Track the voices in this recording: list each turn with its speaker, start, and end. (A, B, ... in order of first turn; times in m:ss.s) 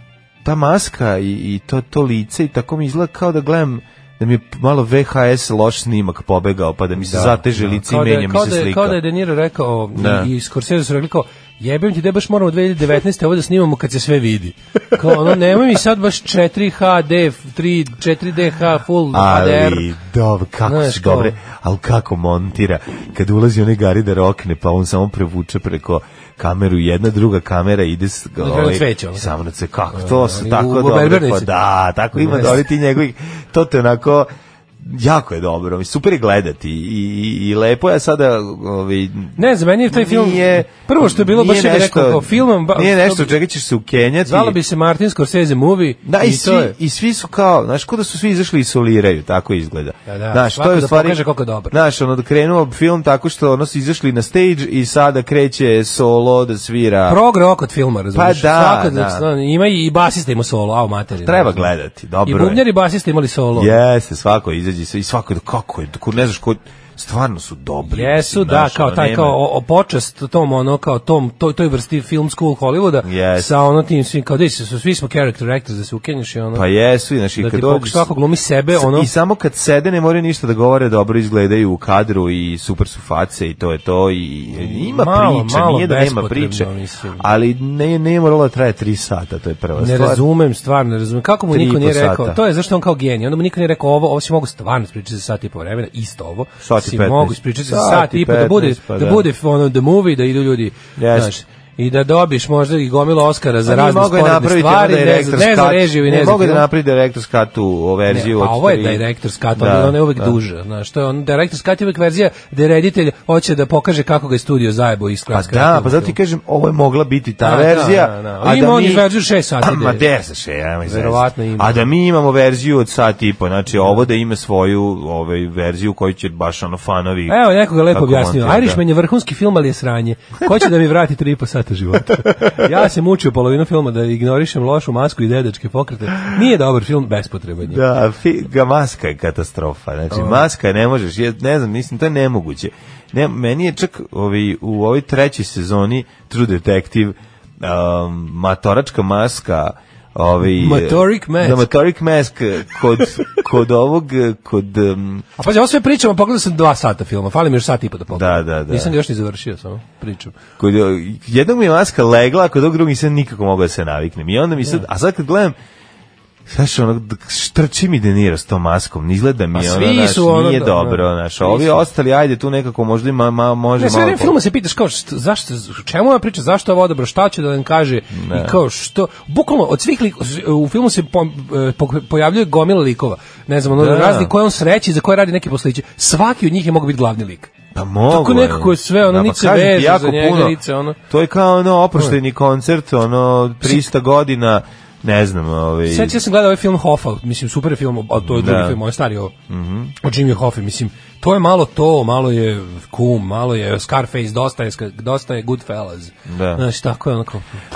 0:00.4-0:09.0 A
0:07.0-0:19.9 B
0:10.0-0:10.3 A
0:19.1-0:39.4 A
0:20.6-0:21.4 B
0:28.4-0:29.3 B
0:29.9-0:31.6 B
0:32.2-0:32.7 B
0:39.4-0:43.3 B
0:39.9-0:44.6 A
0:44.2-0:46.8 B
0:46.0-0:57.2 A
0:50.1-0:51.8 B
0:57.1-1:01.7 B
0:58.1-0:59.2 A
1:01.2-1:02.6 A
1:02.2-1:03.7 B
1:03.6-1:09.4 A
1:07.8-1:16.6 B
1:13.0-1:13.5 A
1:16.5-1:18.1 A
1:17.4-1:19.1 B
1:18.7-1:30.2 A
1:24.6-1:27.2 B
1:29.8-1:46.6 B
1:31.5-1:32.4 A
1:36.6-1:39.3 A
1:41.0-1:41.3 A
1:43.7-1:49.0 A
1:48.1-1:56.2 B
1:49.6-1:50.4 A
1:55.3-1:59.1 A
1:57.4-2:00.0 B
1:59.6-2:08.8 A
2:00.9-2:01.8 B
2:07.3-2:17.8 B
2:12.2-2:12.7 A
2:17.7-2:35.2 A
2:20.1-2:20.4 B
2:30.5-2:31.7 B
2:35.4-2:40.4 B
2:38.1-2:39.0 A
2:40.6-2:45.6 A
2:46.5-2:54.3 A
2:49.6-2:51.8 B
2:53.8-3:07.5 B
2:58.1-2:58.6 A
3:03.8-3:04.3 A
3:07.7-3:16.2 A
3:08.1-3:11.0 B
3:15.9-3:19.3 B
3:18.2-3:18.8 A
3:19.5-3:20.0 A
3:20.0-3:27.6 B
3:26.3-3:26.6 A